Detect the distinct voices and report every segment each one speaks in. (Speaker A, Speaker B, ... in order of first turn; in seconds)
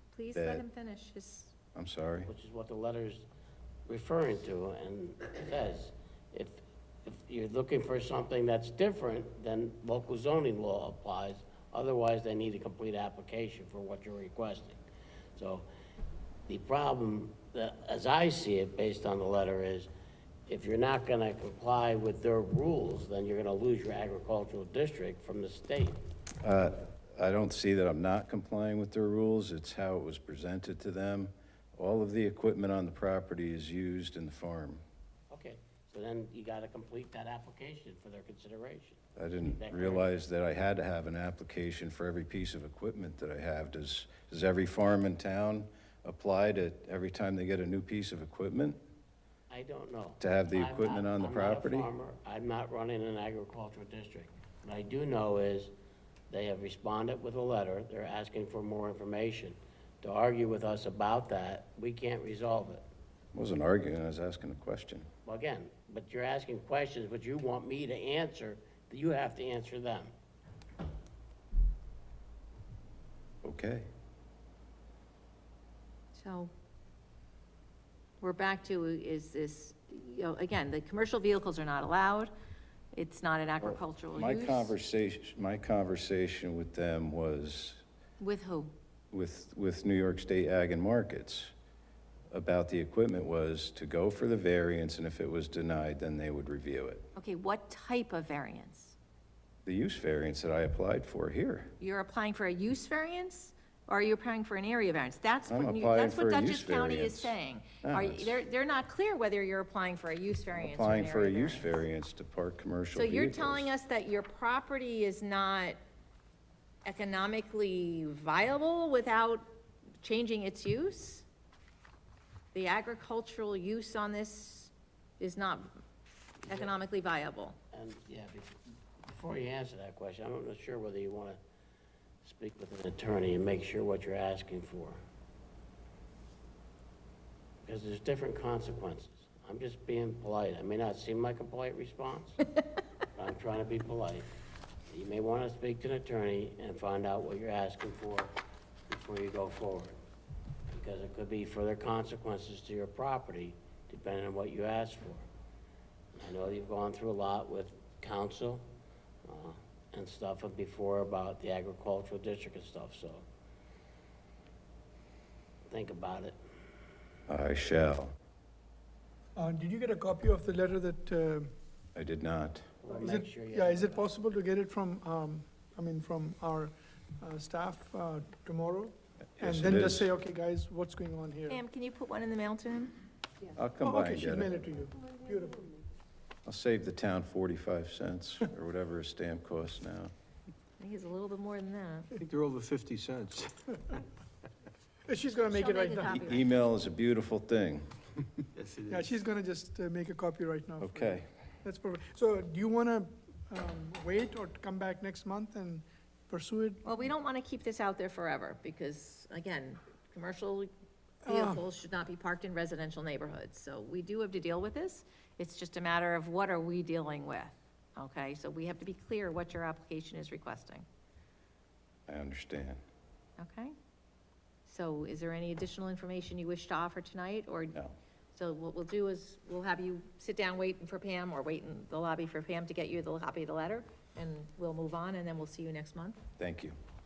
Speaker A: 0.1-1.5, 76.2-76.5, 78.2-82.3, 82.9-84.7, 88.2-88.7, 97.2-99.0, 101.8-111.7, 112.9-115.8, 116.8-119.5, 120.0-121.2, 122.5-125.8, 126.5-127.6, 181.5-182.9, 190.8-192.1, 195.4-196.5, 206.8-210.7, 211.3-220.9, 223.4-223.7, 224.7-227.8, 228.3-236.2
Speaker B: 0.3-0.6, 1.8-2.3, 26.4-34.8, 39.2-48.8, 50.2-51.9, 63.3-65.1, 73.4-73.9, 83.6-87.8, 89.1-91.5, 92.3-97.1, 99.7-101.7, 105.5-108.4, 110.5-113.7, 167.3-168.1, 171.9-172.7, 179.4-180.1, 183.5-184.6, 186.5-190.1, 196.1-197.9, 200.8-201.3, 222.1-222.8, 236.4-236.8
Speaker C: 2.2-3.3, 3.9-14.8, 15.4-15.7, 16.5-19.9, 20.5-26.0, 35.3-40.1, 49.5-55.7, 56.3-62.9, 65.2-70.1, 126.5-126.7, 127.7-131.4, 132.2-135.0, 137.6-142.4, 143.1-144.3, 144.9-148.3, 148.9-149.9, 150.7-155.3, 156.2-158.7, 159.2-163.3, 165.7-166.4, 172.8-174.1
Speaker D: 169.4-171.5, 173.0-181.6, 183.8-185.7, 195.1-196.2, 198.9-206.8, 211.3-211.6
Speaker E: 192.2-193.6, 198.6-199.1